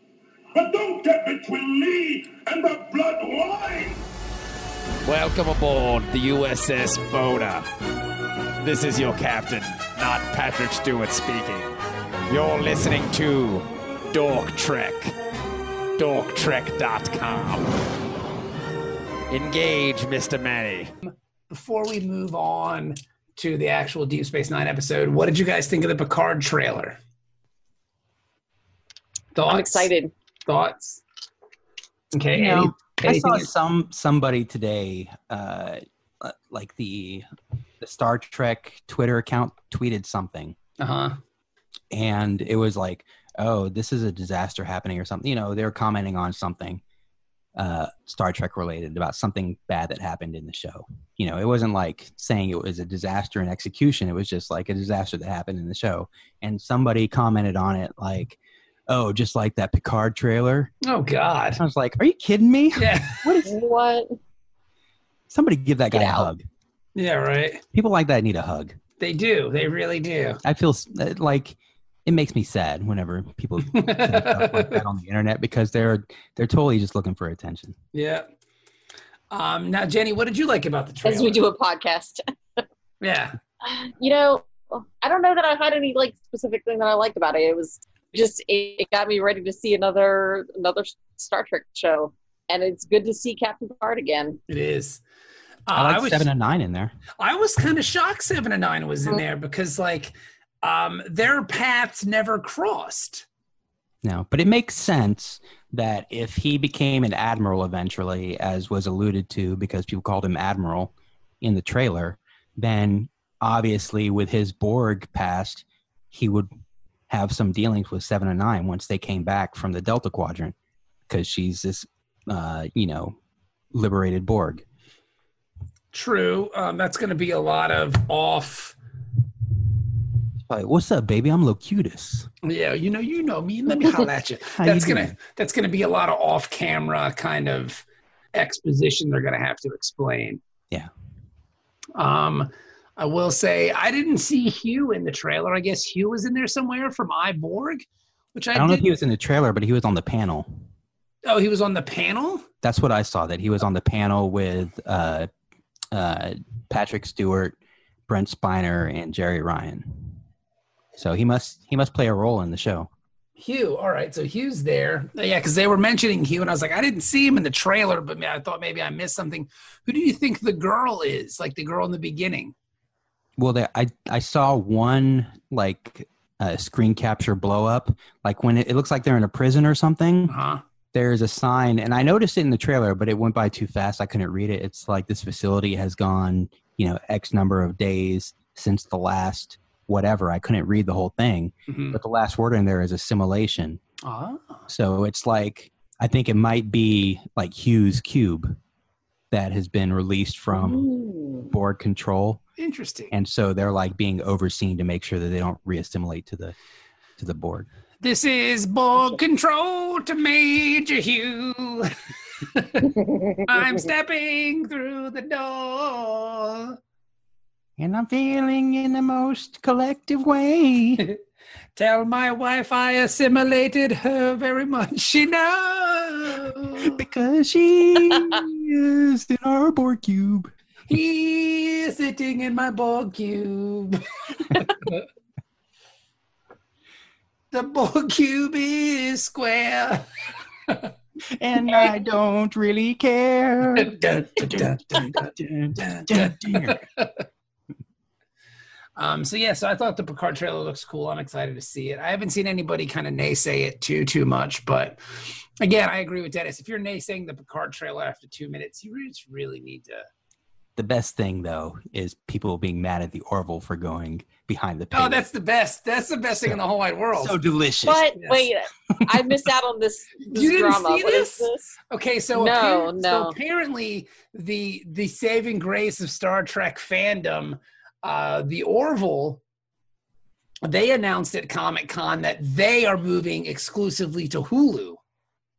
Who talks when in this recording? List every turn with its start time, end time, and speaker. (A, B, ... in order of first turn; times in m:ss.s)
0:00.5-0:04.0 A
0:05.0-0:07.7 B
0:08.6-0:11.7 B
0:12.3-0:15.1 B
0:16.0-0:17.7 B
0:19.3-0:20.9 B
0:21.0-0:27.0 C
0:29.3-0:29.9 C
0:29.5-0:30.1 D
0:30.4-0:31.0 C
0:32.1-0:33.5 C
0:32.3-0:37.2 E
0:37.8-0:40.6 E
0:40.8-0:41.2 C
0:41.9-0:46.8 E
0:47.6-1:00.7 E
1:00.8-1:01.6 C
1:01.6-1:03.5 E
1:02.8-1:03.4 C
1:03.4-1:04.2 D
1:05.3-1:06.4 E
1:05.9-1:06.3 D
1:07.0-1:07.6 C
1:07.7-1:08.8 E
1:09.0-1:10.4 C
1:10.4-1:17.8 E
1:13.7-1:14.8 C
1:17.9-1:18.3 C
1:19.3-1:21.4 C
1:21.0-1:22.2 D
1:23.0-1:23.4 C
1:23.6-1:34.4 D
1:34.5-1:35.0 C
1:35.7-1:36.3 C
1:35.7-1:36.9 E
1:37.2-1:43.2 C
1:44.0-1:56.5 E
1:57.1-2:00.5 E
2:01.1-2:03.2 E
2:03.7-2:04.6 E
2:05.9-2:08.7 C
2:10.4-2:12.3 E
2:12.4-2:20.4 C
2:14.6-2:15.2 E
2:22.0-2:27.8 C
2:28.3-2:28.9 C
2:28.5-2:30.6 E
2:31.2-2:32.5 C
2:32.6-2:35.3 E
2:35.9-2:37.6 E
2:38.1-2:40.2 E
2:41.0-2:42.9 E
2:43.4-2:52.5 C
2:53.4-3:00.3 E
3:00.3-3:00.6 C
3:00.9-3:13.8 E
3:11.7-3:12.0 C
3:14.0-3:14.7 C
3:14.7-3:18.6 E
3:19.3-3:20.8 E
3:20.5-3:21.5 D
3:21.5-3:22.4 E
3:22.6-3:23.1 C
3:23.1-3:26.5 E
3:27.2-3:27.7 E
3:28.0-3:31.9 C
3:32.5-3:36.8 C
3:37.8-3:41.0 E
3:41.8-3:47.0 C
3:46.8-3:50.5 E
3:50.9-3:55.0 C
3:57.5-4:00.1 C
4:01.3-4:06.8 E
4:03.7-4:07.1 C
4:09.0-4:20.1 C
4:20.8-4:25.2 E
4:24.9-4:27.4 C
4:27.2-4:28.0 E
4:27.8-4:31.8 D
4:29.0-4:29.2 E
4:30.3-4:39.4 C
4:32.3-4:33.4 D
4:40.6-4:45.0 C